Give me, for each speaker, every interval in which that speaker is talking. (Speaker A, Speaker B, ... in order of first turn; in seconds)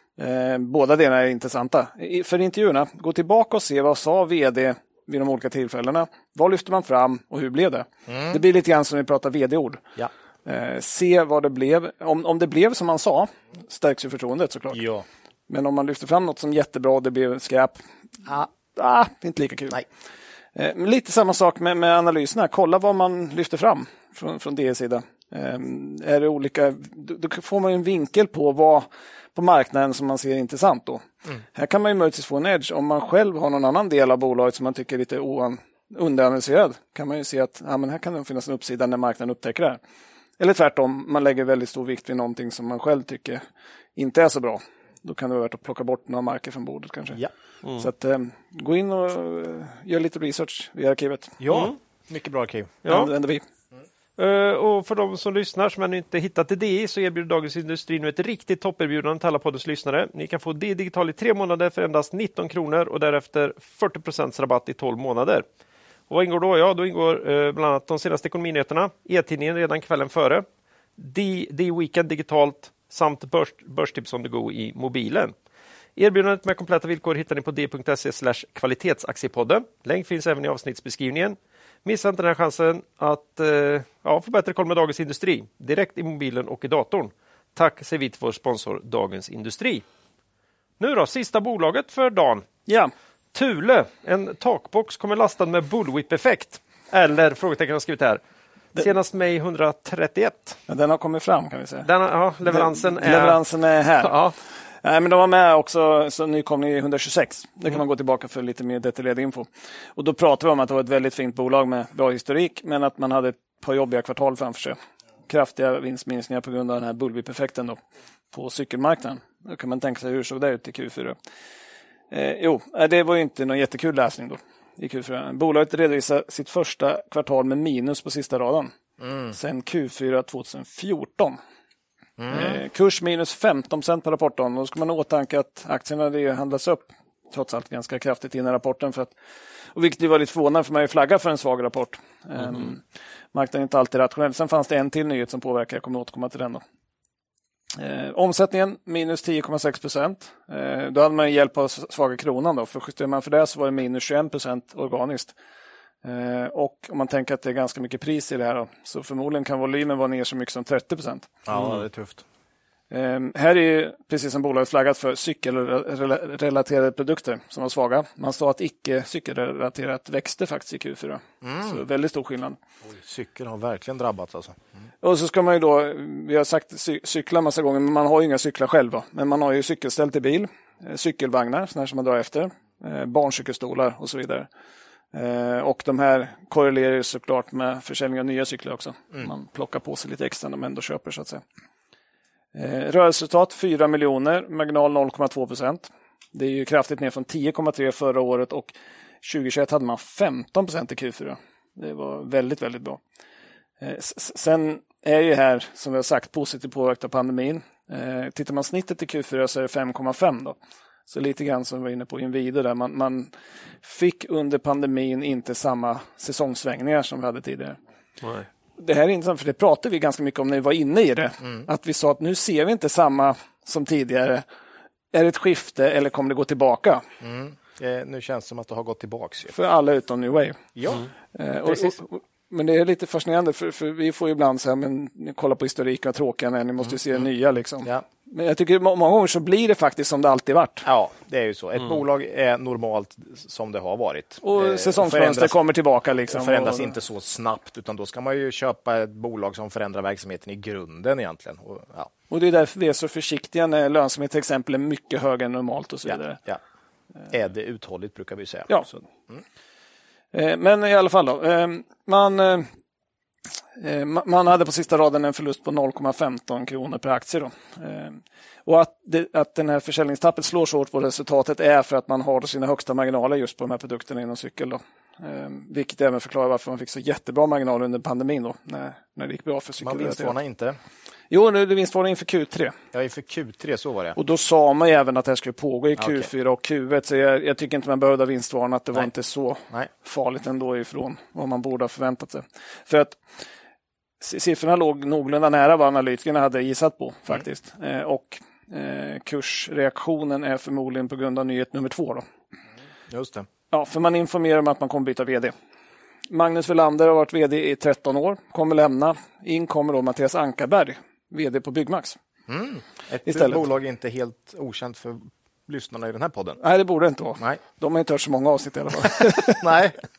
Speaker A: 0.2-9.8, 10.4-14.8, 15.5-17.8, 18.7-19.8, 20.5-39.8, 40.4-43.4, 44.0-47.2, 47.8-51.4, 52.9-53.4, 92.7-92.9, 100.7-101.9, 102.5-104.1, 104.8-114.8, 115.3-117.8, 118.3-121.2, 122.1-128.7, 129.3-131.4, 132.3-139.1, 139.7-146.6, 147.7-155.3, 156.0-161.3, 162.9-172.6, 175.0-184.5, 185.1-191.4, 192.5-203.0, 203.8-210.6, 211.1-213.3, 213.8-217.8, 218.8-224.4, 225.1-227.0, 229.5-230.6, 231.3-240.9, 244.4-246.9, 252.3-256.4, 260.3-262.7, 263.8-280.3, 281.3-282.7, 284.1-293.2, 294.2-302.2, 303.7-305.5, 306.3-312.2, 313.2-313.6, 316.6-319.8
Speaker B: 8.1-8.4, 14.7-15.0, 51.4-52.8, 129.0-129.3, 132.2-132.6, 161.4-162.2, 171.4-171.8, 172.9-174.6, 227.2-229.5, 230.8-231.0, 240.8-245.6, 246.3-252.1, 256.1-256.6, 257.3-259.4, 279.8-280.8, 282.9-284.1, 286.0-286.3, 303.1-303.5, 312.5-316.6, 319.6-319.9
Speaker C: 51.5-51.7, 52.8-53.1, 54.2-65.4, 66.1-70.4, 71.0-75.3, 76.0-89.8, 90.8-92.5, 93.3-98.2, 98.7-100.6, 101.8-103.4, 104.0-104.3